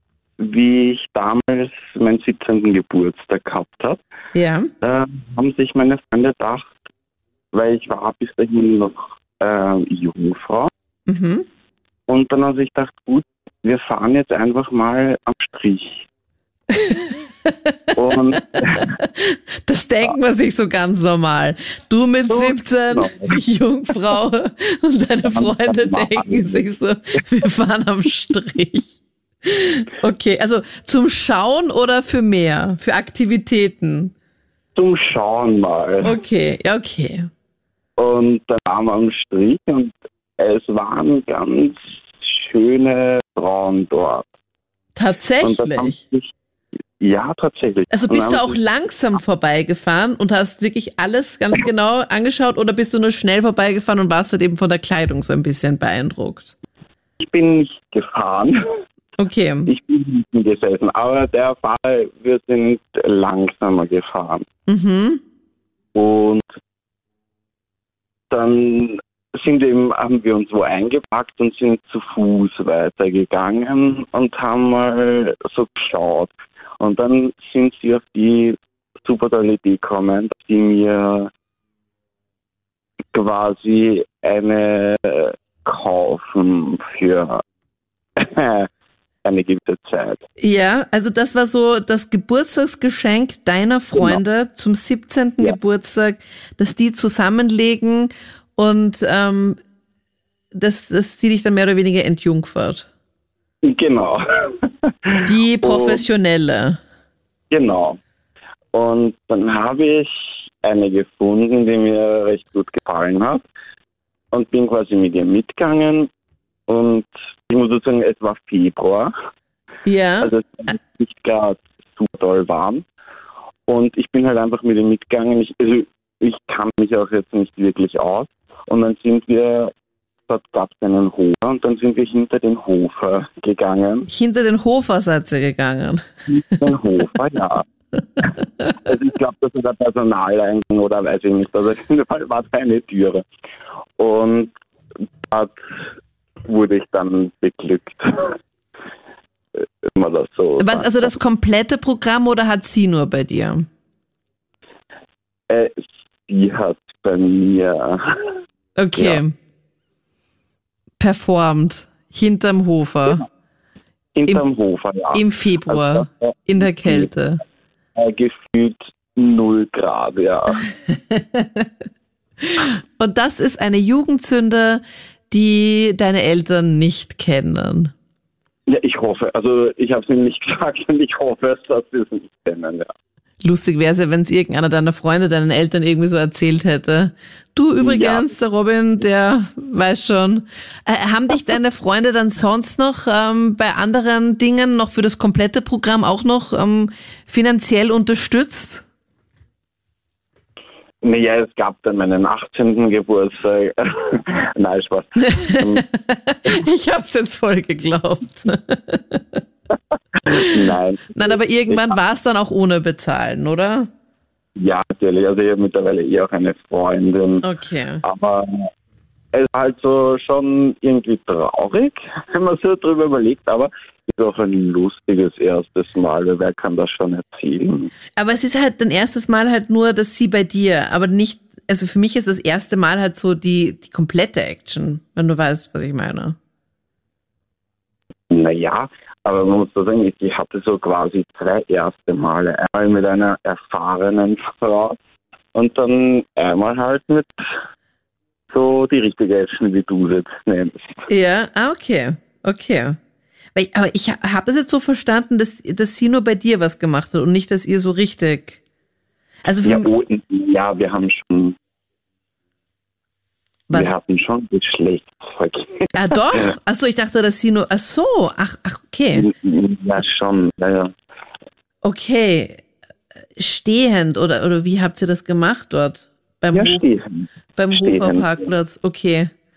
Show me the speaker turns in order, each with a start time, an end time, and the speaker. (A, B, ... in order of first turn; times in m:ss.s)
0:00.4-0:04.0 A
0:04.3-0:04.7 B
0:04.8-0:06.8 A
0:07.5-0:10.7 A
0:11.1-0:11.5 B
0:12.1-0:16.0 A
0:16.8-0:17.5 B
0:18.0-0:19.0 A
0:18.8-0:34.1 B
0:22.3-0:23.4 A
0:25.2-0:26.7 A
0:34.8-0:36.1 A
0:36.0-0:37.3 B
0:38.0-0:44.3 A
0:45.0-0:46.0 B
0:45.4-0:46.3 A
0:47.0-0:48.6 A
0:47.9-0:56.6 B
0:57.2-0:58.6 A
0:59.2-0:59.7 B
0:59.7-1:04.5 A
1:04.7-1:05.2 B
1:06.0-1:06.5 A
1:08.3-1:21.3 A
1:23.1-1:27.4 A
1:28.2-1:28.7 A
1:29.2-1:30.2 A
1:30.4-1:39.6 B
1:33.9-1:34.2 A
1:40.5-1:42.9 B
1:43.6-1:46.0 A
1:45.2-1:46.8 B
1:47.5-1:48.0 A
1:48.7-1:53.5 A
1:54.3-1:56.1 A
1:56.7-1:59.1 A
1:59.8-2:00.3 B
2:00.2-2:02.9 A
2:03.7-2:09.7 A
2:10.3-2:14.1 A
2:14.1-2:16.1 B
2:16.3-2:17.6 A
2:18.3-2:23.2 A
2:24.0-2:24.5 A
2:25.3-2:25.6 A
2:26.4-2:28.4 A
2:29.9-2:31.1 A
2:30.6-2:33.7 B
2:35.5-2:38.3 A
2:38.8-2:39.4 B
2:39.0-2:39.2 A
2:41.0-2:43.2 B
2:44.2-2:47.1 A
2:45.1-2:47.4 B
2:48.0-2:50.7 A
2:50.9-2:51.7 B
2:52.4-2:57.9 B
2:58.7-3:02.9 A
3:03.4-3:18.8 B
3:07.8-3:08.3 A
3:21.0-3:25.9 A
3:25.3-3:29.4 B
3:30.3-3:32.0 A
3:30.3-3:33.9 B
3:34.6-3:37.4 A
3:37.4-3:38.0 B
3:38.0-3:38.7 A
3:39.3-3:47.9 A
3:48.2-3:56.4 B
3:58.3-4:05.0 A
4:05.6-4:07.3 A
4:08.5-4:11.0 A
4:11.1-4:13.0 B
4:13.6-4:18.6 B
4:19.4-4:19.9 B
4:19.6-4:21.6 A
4:23.7-4:26.5 A
4:25.9-4:29.3 B
4:29.1-4:30.9 A
4:31.8-4:32.6 B
4:33.4-4:36.8 B
4:36.5-4:38.5 A
4:37.6-4:39.3 B